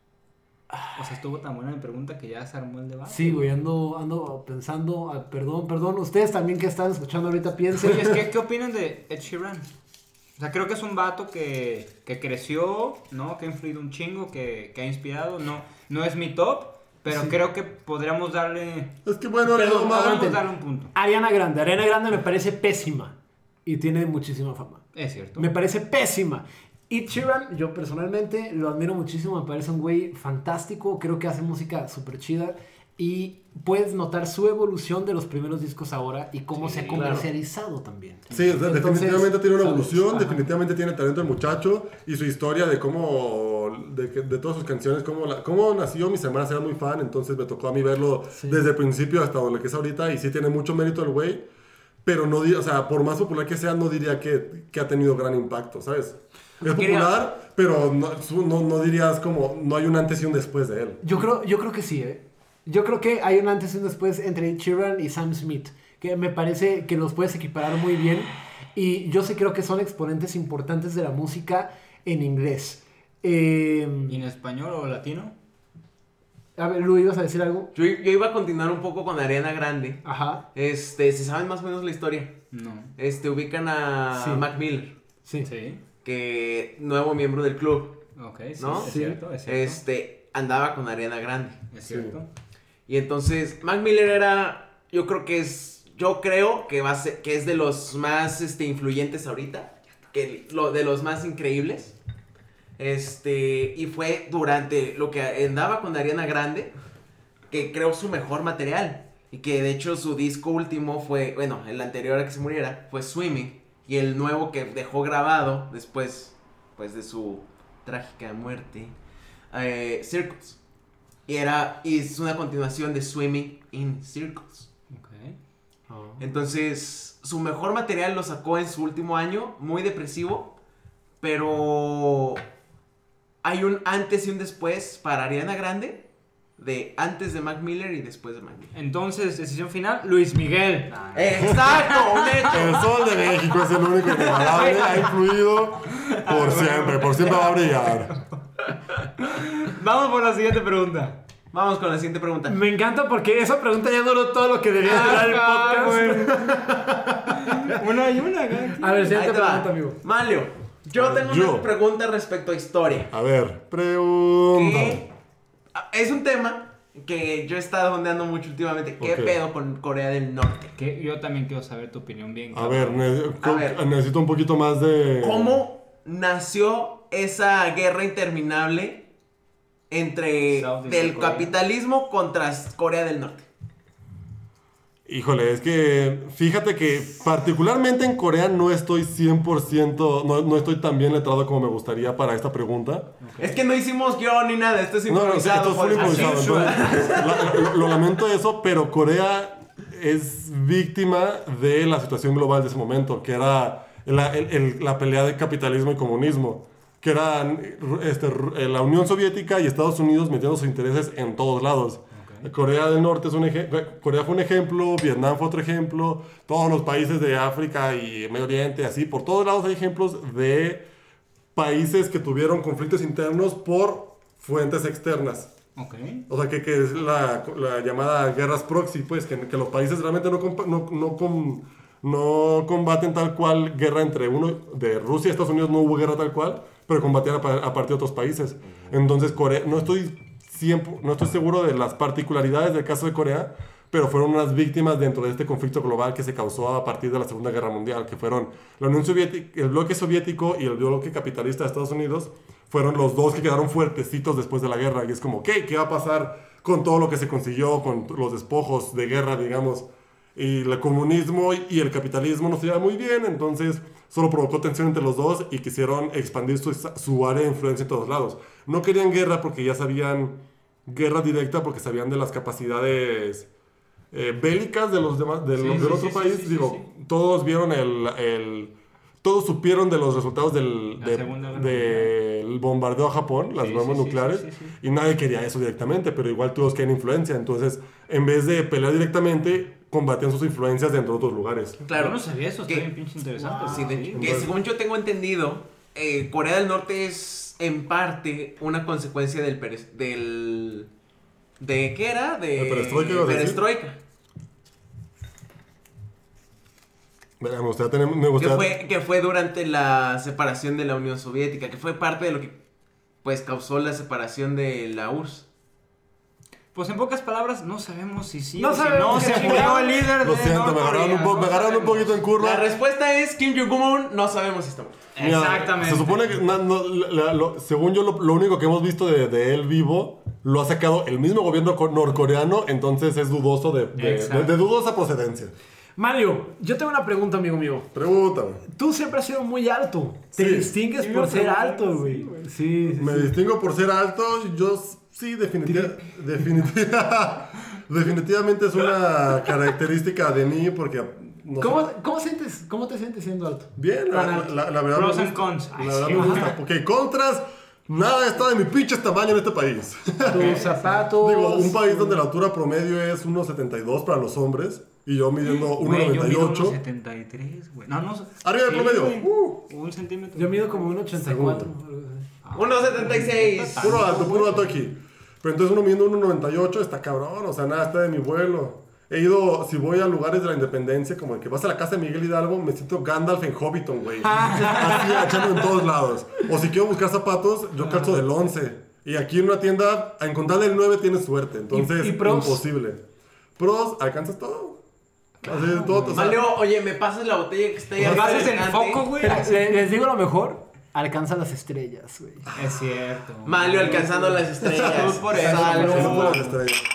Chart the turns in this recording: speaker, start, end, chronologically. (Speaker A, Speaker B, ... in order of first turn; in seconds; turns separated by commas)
Speaker A: 0.9-3.6, Speaker B: 3.1-8.2, Speaker A: 7.8-9.7, Speaker A: 10.4-19.0, Speaker B: 17.1-17.3, Speaker C: 19.0-20.3, Speaker B: 19.4-20.4, Speaker A: 19.9-20.9, Speaker B: 20.9-24.8, Speaker A: 24.9-25.5, Speaker B: 25.4-40.4, Speaker A: 36.6-37.2, Speaker D: 36.9-37.3, Speaker C: 38.3-51.4, Speaker B: 48.3-48.6, Speaker C: 52.0-61.0, Speaker A: 56.6-57.1, Speaker B: 61.0-74.2, Speaker A: 74.1-75.3, Speaker B: 76.6-77.7, Speaker D: 77.7-82.4, Speaker B: 80.0-80.4, Speaker A: 82.5-82.9, Speaker D: 83.0-84.9, Speaker B: 84.1-84.5, Speaker A: 85.4-85.8, Speaker D: 86.0-88.0, Speaker A: 88.2-89.8, Speaker D: 88.6-88.9, Speaker B: 88.8-89.2, Speaker D: 89.4-91.7, Speaker A: 91.7-92.3, Speaker C: 91.8-92.2, Speaker D: 92.9-102.0, Speaker D: 102.8-106.7, Speaker D: 107.5-118.9, Speaker D: 119.5-120.6, Speaker D: 121.3-124.7, Speaker A: 124.9-125.4, Speaker B: 125.9-126.2, Speaker D: 126.2-130.5, Speaker D: 131.2-132.4, Speaker D: 133.4-136.1, Speaker D: 136.6-138.7, Speaker A: 138.7-142.7, Speaker D: 141.1-143.2, Speaker C: 142.5-148.1, Speaker D: 144.0-145.0, Speaker B: 144.5-145.1, Speaker A: 146.0-148.2, Speaker A: 149.2-151.2, Speaker D: 151.5-152.6, Speaker B: 152.4-157.8, Speaker A: 154.8-156.8, Speaker A: 157.3-159.2, Speaker B: 158.8-160.0, Speaker D: 159.1-163.1, Speaker C: 160.9-161.7, Speaker C: 163.1-165.0, Speaker D: 164.5-165.1, Speaker D: 165.7-170.7, Speaker C: 169.0-169.3, Speaker A: 170.8-173.0, Speaker C: 172.5-175.6, Speaker D: 173.4-173.8, Speaker D: 175.2-179.1, Speaker D: 179.9-183.5, Speaker A: 180.5-181.5, Speaker C: 185.1-193.1, Speaker A: 193.2-193.6, Speaker D: 193.4-197.9, Speaker C: 195.1-220.8, Speaker A: 195.9-196.8, Speaker A: 212.1-212.5, Speaker C: 221.5-225.5, Speaker A: 225.8-226.2, Speaker C: 226.3-273.5, Speaker C: 274.1-291.8, Speaker A: 275.5-276.8, Speaker A: 281.0-282.1, Speaker A: 283.6-284.7, Speaker D: 291.9-292.9, Speaker A: 291.9-294.4, Speaker B: 293.4-294.0, Speaker D: 293.6-300.9, Speaker C: 294.1-294.5, Speaker D: 301.6-304.0, Speaker C: 302.5-303.6, Speaker C: 307.4-308.7, Speaker D: 308.4-312.6, Speaker D: 313.2-315.5, Speaker A: 316.7-322.2, Speaker B: 318.6-320.0, Speaker C: 319.1-322.7, Speaker D: 322.4-325.1, Speaker A: 325.1-326.4, Speaker C: 325.2-335.5, Speaker A: 334.0-334.6, Speaker B: 336.0-337.9, Speaker C: 337.9-338.6, Speaker B: 338.6-343.3, Speaker C: 340.3-340.7, Speaker A: 340.9-342.4, Speaker C: 342.9-351.9, Speaker B: 351.6-354.5, Speaker C: 353.8-366.8, Speaker A: 354.9-356.5, Speaker B: 356.2-356.4, Speaker B: 360.2-362.2, Speaker A: 360.3-361.0, Speaker A: 365.4-370.9, Speaker C: 368.4-369.6, Speaker B: 370.3-372.3, Speaker C: 371.1-371.7, Speaker A: 372.4-374.8, Speaker D: 372.5-374.4, Speaker C: 373.8-393.0, Speaker B: 384.4-385.4, Speaker B: 391.7-392.6, Speaker C: 393.6-394.8, Speaker C: 395.4-396.4, Speaker A: 395.4-396.3, Speaker D: 396.1-399.1, Speaker C: 398.0-398.4, Speaker A: 398.0-399.8, Speaker B: 399.1-402.5, Speaker A: 402.5-406.4, Speaker D: 403.4-406.5, Speaker C: 404.6-406.8, Speaker B: 405.3-406.5